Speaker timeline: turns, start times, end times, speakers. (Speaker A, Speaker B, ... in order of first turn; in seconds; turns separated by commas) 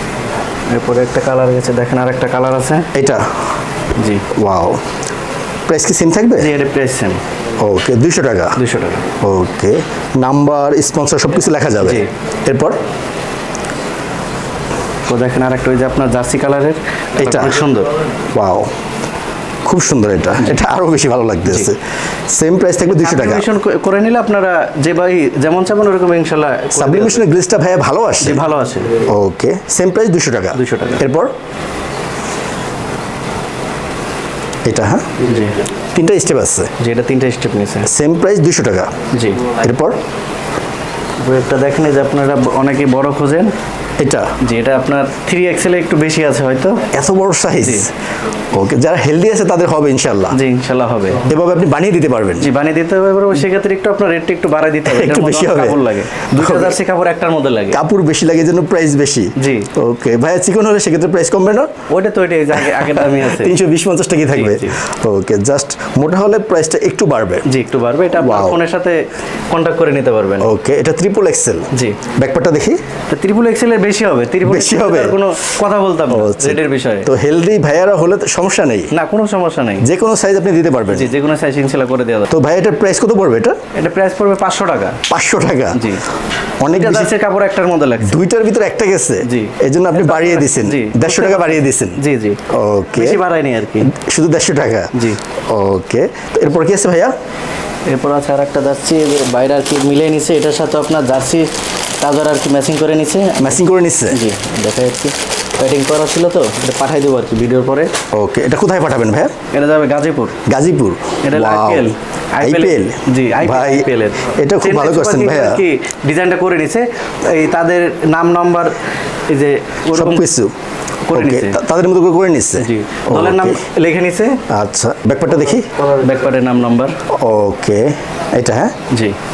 Speaker A: 0.7-2.9, Speaker B: 2.9-3.4, Speaker A: 4.0-4.3, Speaker B: 4.3-4.8, Speaker B: 5.7-6.6, Speaker A: 6.4-7.2, Speaker B: 7.6-8.6, Speaker A: 8.6-9.1, Speaker B: 9.2-12.8, Speaker A: 11.8-12.1, Speaker A: 15.1-17.9, Speaker B: 17.2-17.6, Speaker B: 18.3-18.7, Speaker B: 19.6-23.5, Speaker A: 23.0-27.3, Speaker B: 26.7-28.4, Speaker A: 28.2-29.0, Speaker B: 29.0-31.3, Speaker A: 30.6-31.0, Speaker B: 34.6-35.2, Speaker A: 35.2-35.6, Speaker B: 35.9-36.7, Speaker A: 36.8-37.9, Speaker B: 37.9-38.9, Speaker A: 39.1-39.5, Speaker B: 39.5-40.0, Speaker A: 41.2-43.5, Speaker B: 44.0-44.4, Speaker A: 44.4-46.9, Speaker B: 46.9-47.9, Speaker A: 47.6-47.9, Speaker B: 48.5-50.4, Speaker A: 50.3-51.3, Speaker B: 51.2-52.5, Speaker A: 52.4-57.8, Speaker B: 54.9-56.8, Speaker B: 57.7-61.7, Speaker A: 59.4-59.7, Speaker A: 61.9-63.6, Speaker B: 62.6-67.5, Speaker A: 64.3-64.8, Speaker A: 67.5-70.5, Speaker B: 68.2-68.6, Speaker B: 70.4-72.8, Speaker A: 71.7-72.0, Speaker A: 73.1-77.1, Speaker B: 74.4-75.4, Speaker B: 76.1-78.9, Speaker A: 78.9-79.9, Speaker B: 79.8-81.1, Speaker A: 80.9-82.3, Speaker B: 82.3-83.6, Speaker A: 83.7-85.0, Speaker B: 85.1-85.9, Speaker A: 85.7-86.0, Speaker B: 86.6-87.1, Speaker A: 86.7-88.2, Speaker B: 88.0-93.2, Speaker A: 89.2-92.4, Speaker A: 93.0-93.9, Speaker B: 93.8-94.9, Speaker A: 94.9-95.2, Speaker B: 95.5-97.2, Speaker A: 97.9-101.5, Speaker A: 102.0-103.6, Speaker B: 103.4-104.2, Speaker A: 104.1-107.9, Speaker B: 108.1-109.3, Speaker A: 109.5-110.4, Speaker B: 110.5-111.9, Speaker A: 111.2-118.8, Speaker B: 112.4-115.6, Speaker A: 119.3-120.3, Speaker B: 119.9-120.5, Speaker A: 121.1-121.6, Speaker B: 121.1-123.6, Speaker A: 122.6-124.4, Speaker B: 124.5-125.7, Speaker A: 125.8-127.0, Speaker B: 127.1-128.7, Speaker A: 128.9-129.2